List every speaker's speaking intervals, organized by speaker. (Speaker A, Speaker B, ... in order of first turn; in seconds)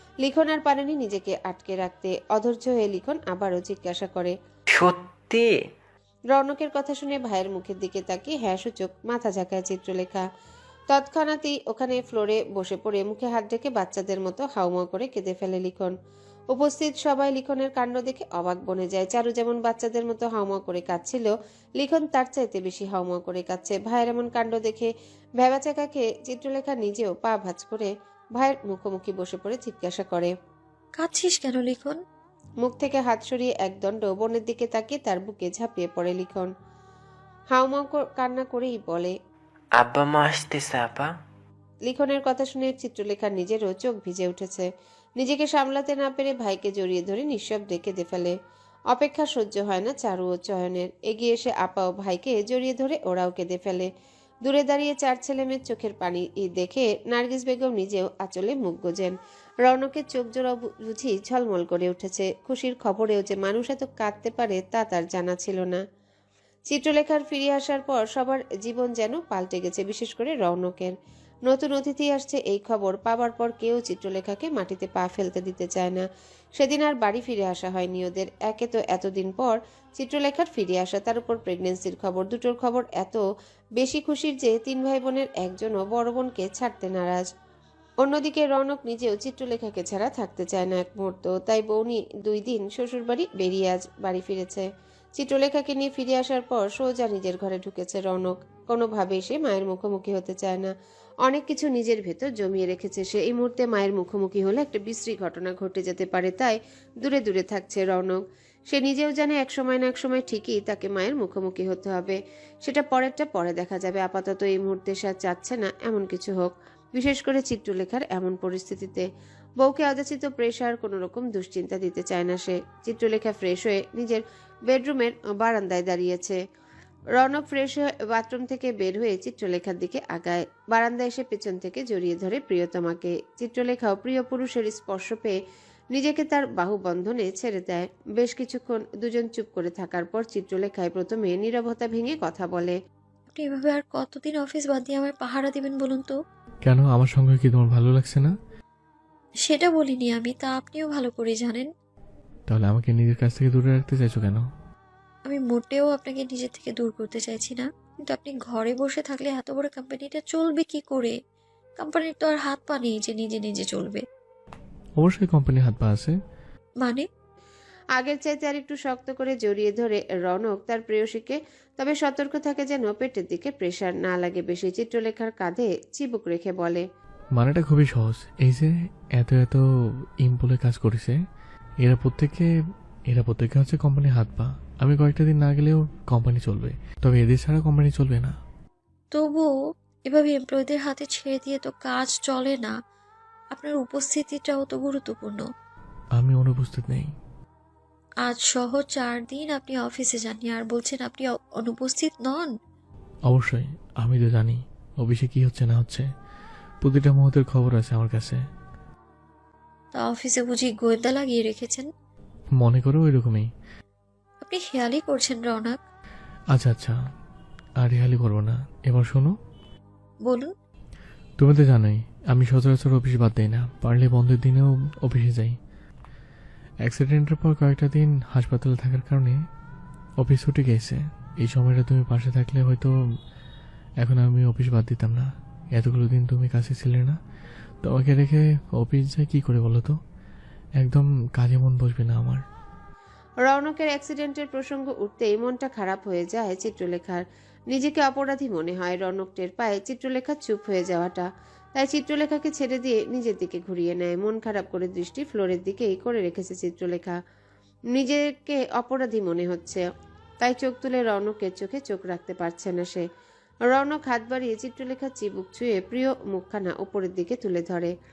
Speaker A: 0.2-4.3, 6.3-10.2, 10.9-15.9, 16.5-30.3, 32.6-36.5, 37.5-39.1, 41.9-44.7, 45.2-48.3, 48.9-53.9, 54.4-65.8, 66.7-70.9, 71.5-76.0, 76.5-83.2, 83.8-87.2, 88.0-94.7, 95.2-100.7, 101.2-119.0, 119.6-126.4, 127.2-135.3, 135.9-142.8, 167.9-176.8, 243.4-257.2, 257.9-259.8, 260.4-263.0, 263.7-267.9
Speaker B: 4.8-5.6, 39.8-41.1
Speaker C: 31.0-32.0, 143.3-146.1, 149.4-151.7, 155.2-161.2, 161.8-164.0, 166.8-167.1, 189.1-189.5, 190.0-192.8, 193.5-195.4, 198.2-202.5, 209.9-211.9, 214.4-215.8
Speaker D: 146.6-148.3, 152.5-154.4, 165.0-166.1, 177.4-179.6, 180.2-181.1, 181.8-182.4, 183.1-188.3, 196.2-197.1, 203.3-206.0, 206.8-208.4, 212.6-213.4, 216.5-216.9, 217.8-219.3, 221.4-225.5, 226.8-229.3, 230.2-232.9, 234.0-237.2, 237.8-239.9, 240.8-242.4